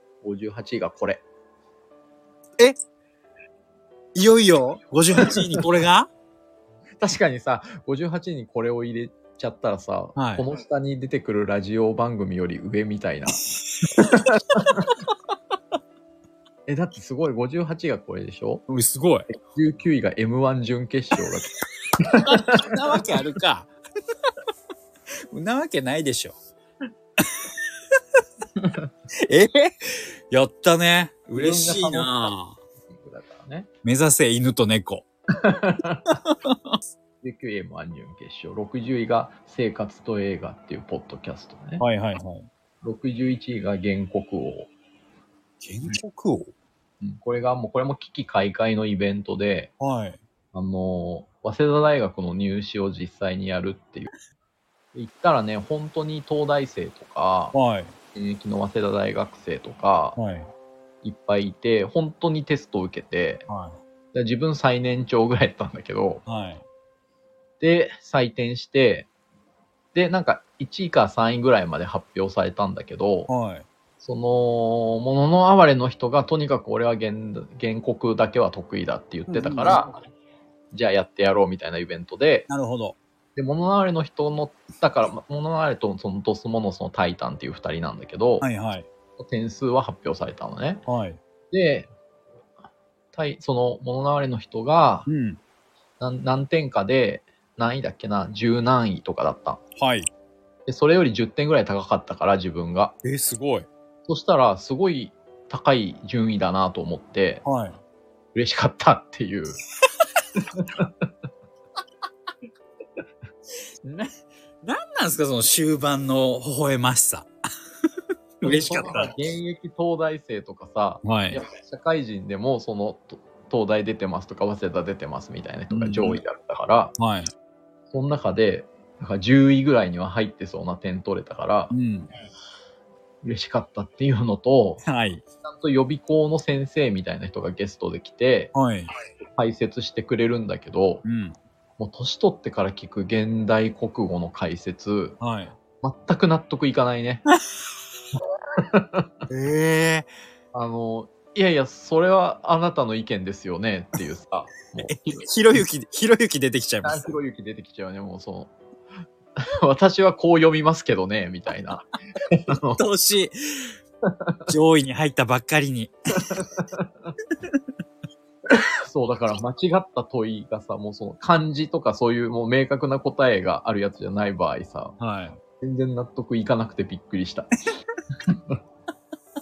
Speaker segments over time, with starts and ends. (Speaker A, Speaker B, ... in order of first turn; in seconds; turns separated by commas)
Speaker A: 0.2-1.2, Speaker B: 4.2-6.1, Speaker A: 5.2-5.6, Speaker A: 7.0-14.9, Speaker B: 10.2-10.5, Speaker B: 13.8-14.2, Speaker A: 16.7-18.6, Speaker B: 18.7-19.3, Speaker A: 19.3-22.8, Speaker B: 22.1-23.7, Speaker B: 25.3-26.4, Speaker B: 27.2-27.5, Speaker B: 29.3-32.6, Speaker A: 31.4-32.1, Speaker A: 32.9-33.7, Speaker B: 33.8-35.0, Speaker A: 35.4-36.2, Speaker B: 36.1-36.8, Speaker A: 37.2-41.8, Speaker B: 41.8-42.5, Speaker A: 42.8-44.7, Speaker B: 45.6-46.5, Speaker A: 47.0-49.7, Speaker B: 49.8-50.2, Speaker A: 50.5-54.1, Speaker A: 54.9-57.5, Speaker B: 57.5-58.0, Speaker A: 58.1-60.2, Speaker B: 60.2-60.5, Speaker A: 61.0-63.5, Speaker B: 63.5-63.8, Speaker A: 64.1-66.2, Speaker B: 66.3-66.7, Speaker A: 67.6-69.1, Speaker A: 69.9-73.3, Speaker B: 73.3-73.7, Speaker A: 74.0-79.9, Speaker B: 79.3-79.8, Speaker A: 80.7-82.5, Speaker B: 82.5-83.0, Speaker A: 83.4-88.5, Speaker B: 88.4-88.9, Speaker A: 89.2-90.8, Speaker B: 90.9-91.2, Speaker A: 91.5-91.9, Speaker A: 93.1-95.1, Speaker B: 95.1-95.4, Speaker A: 96.0-99.6, Speaker B: 99.8-100.1, Speaker A: 100.7-102.9, Speaker B: 103.0-103.7, Speaker A: 104.1-107.4, Speaker B: 107.5-107.8, Speaker A: 108.3-109.6, Speaker A: 110.4-111.1, Speaker B: 113.8-114.1, Speaker B: 114.6-117.3, Speaker B: 118.4-119.2, Speaker A: 118.4-127.0, Speaker B: 121.0-121.4, Speaker B: 125.7-126.2, Speaker B: 127.0-127.3, Speaker A: 127.9-131.7, Speaker B: 131.7-132.1, Speaker A: 133.2-134.8, Speaker B: 134.8-135.2, Speaker A: 135.4-138.5, Speaker B: 138.5-138.9, Speaker A: 139.3-141.0, Speaker B: 141.0-141.4, Speaker A: 141.8-145.2, Speaker B: 145.2-145.6, Speaker A: 145.8-147.2, Speaker A: 148.6-149.1, Speaker B: 149.3-150.1, Speaker A: 150.5-155.3, Speaker B: 154.8-157.2, Speaker A: 156.8-158.5, Speaker A: 159.4-162.8, Speaker B: 162.8-163.7, Speaker A: 164.1-164.5, Speaker B: 164.5-166.4, Speaker A: 166.2-167.1, Speaker A: 168.5-175.0, Speaker B: 175.0-175.4, Speaker A: 175.6-177.5, Speaker A: 178.2-178.6